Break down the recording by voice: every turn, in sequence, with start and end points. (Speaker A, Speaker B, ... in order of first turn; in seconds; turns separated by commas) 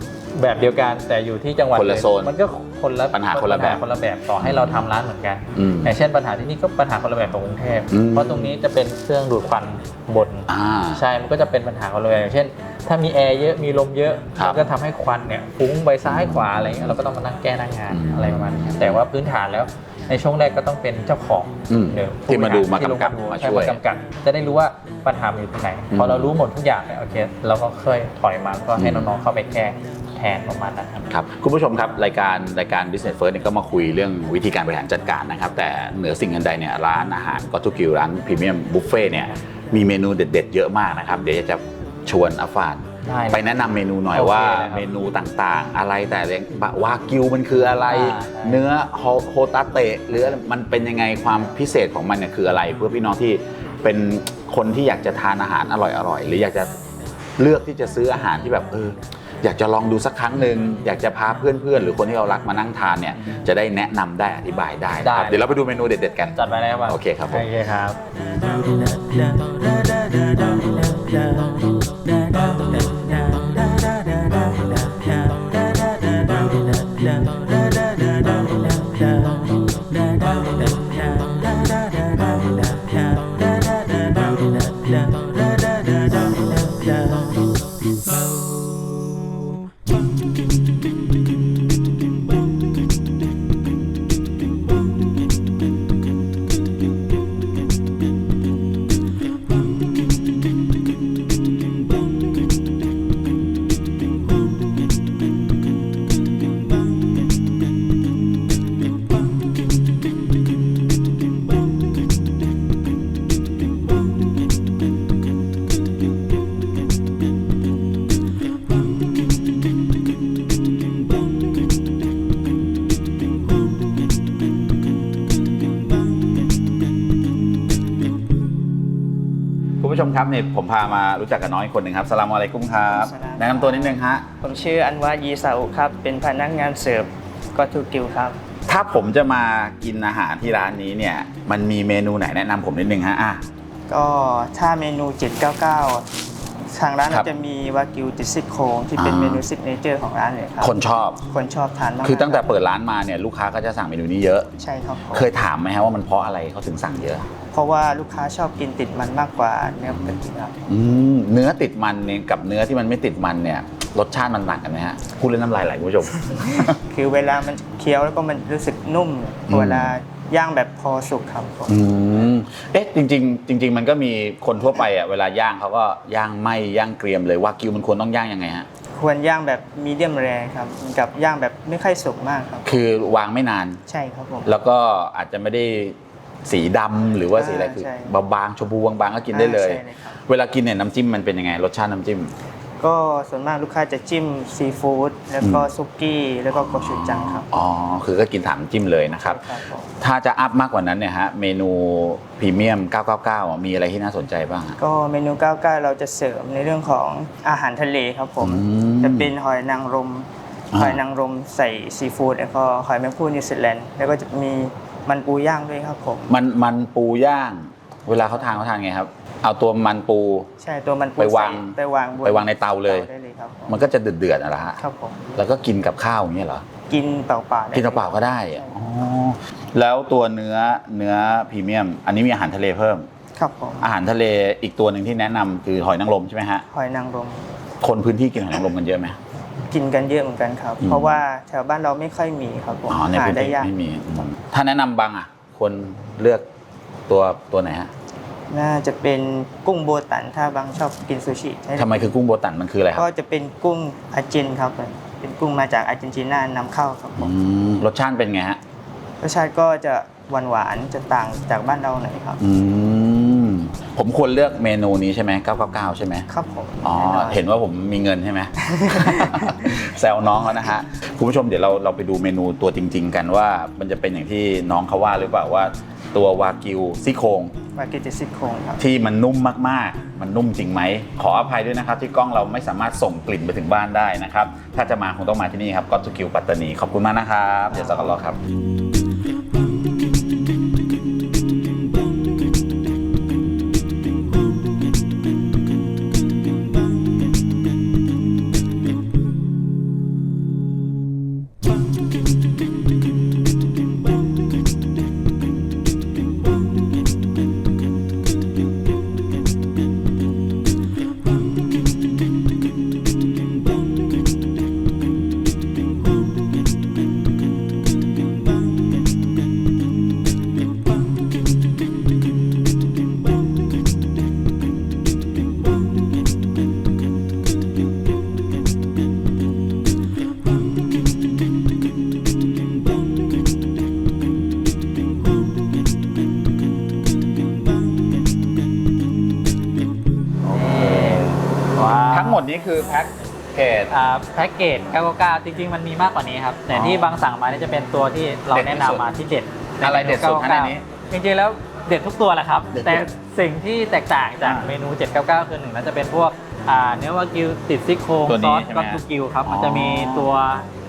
Speaker A: 0.3-31.1, Speaker B: 1.7-2.3, Speaker B: 3.1-3.8, Speaker B: 4.4-4.9, Speaker B: 5.5-5.9, Speaker B: 7.9-8.6, Speaker B: 10.5-11.0, Speaker B: 14.4-14.7, Speaker B: 16.1-17.0, Speaker B: 17.9-19.0, Speaker B: 21.7-23.8, Speaker B: 25.9-26.4, Speaker B: 28.8-29.1, Speaker B: 31.1-56.7, Speaker A: 43.0-43.5, Speaker A: 44.1-44.9, Speaker A: 47.9-48.6, Speaker B: 57.4-67.5, Speaker A: 65.0-65.5, Speaker A: 66.3-68.0, Speaker B: 72.4-72.9, Speaker B: 129.8-134.2, Speaker C: 132.9-138.4, Speaker B: 138.7-143.4, Speaker C: 143.9-146.1, Speaker C: 146.7-150.7, Speaker B: 149.0-149.4, Speaker B: 150.6-151.2, Speaker C: 151.3-152.5, Speaker B: 152.0-154.5, Speaker C: 154.6-155.3, Speaker B: 155.1-157.3, Speaker C: 157.5-160.6, Speaker B: 159.9-160.2, Speaker B: 160.7-166.8, Speaker C: 166.6-171.8, Speaker B: 169.5-169.9, Speaker B: 171.7-178.7, Speaker C: 179.0-182.7, Speaker B: 182.7-183.8, Speaker C: 183.9-184.5, Speaker B: 184.4-192.3, Speaker C: 187.3-188.1, Speaker C: 189.3-190.2, Speaker C: 192.8-197.5, Speaker B: 195.4-195.7, Speaker B: 196.5-204.8, Speaker C: 199.2-199.9, Speaker C: 204.8-216.4, Speaker B: 208.4-209.3, Speaker B: 210.7-211.0, Speaker B: 216.3-220.5, Speaker C: 220.6-223.8, Speaker B: 221.2-223.1, Speaker B: 223.7-224.8, Speaker C: 224.8-225.4, Speaker B: 225.4-226.7, Speaker C: 226.9-228.8, Speaker B: 227.7-233.1, Speaker C: 233.4-233.9, Speaker B: 233.8-236.7, Speaker C: 236.7-237.4, Speaker B: 237.8-239.2, Speaker C: 239.7-243.7, Speaker B: 240.8-241.2, Speaker B: 242.9-246.4, Speaker B: 247.1-247.9, Speaker C: 248.5-252.1, Speaker B: 251.8-253.1, Speaker C: 253.0-257.3, Speaker B: 257.2-258.6, Speaker C: 259.2-262.4, Speaker B: 262.4-266.2, Speaker C: 266.3-267.4, Speaker B: 266.8-277.5, Speaker C: 268.6-269.9, Speaker C: 277.8-278.8, Speaker B: 278.8-288.4, Speaker C: 287.8-288.1, Speaker B: 340.5-341.4, Speaker A: 340.5-342.4, Speaker B: 342.1-343.9, Speaker A: 343.9-360.7, Speaker B: 346.7-347.1, Speaker B: 348.5-349.0, Speaker B: 349.8-350.8, Speaker B: 352.7-353.1, Speaker B: 354.4-354.7, Speaker B: 358.3-360.3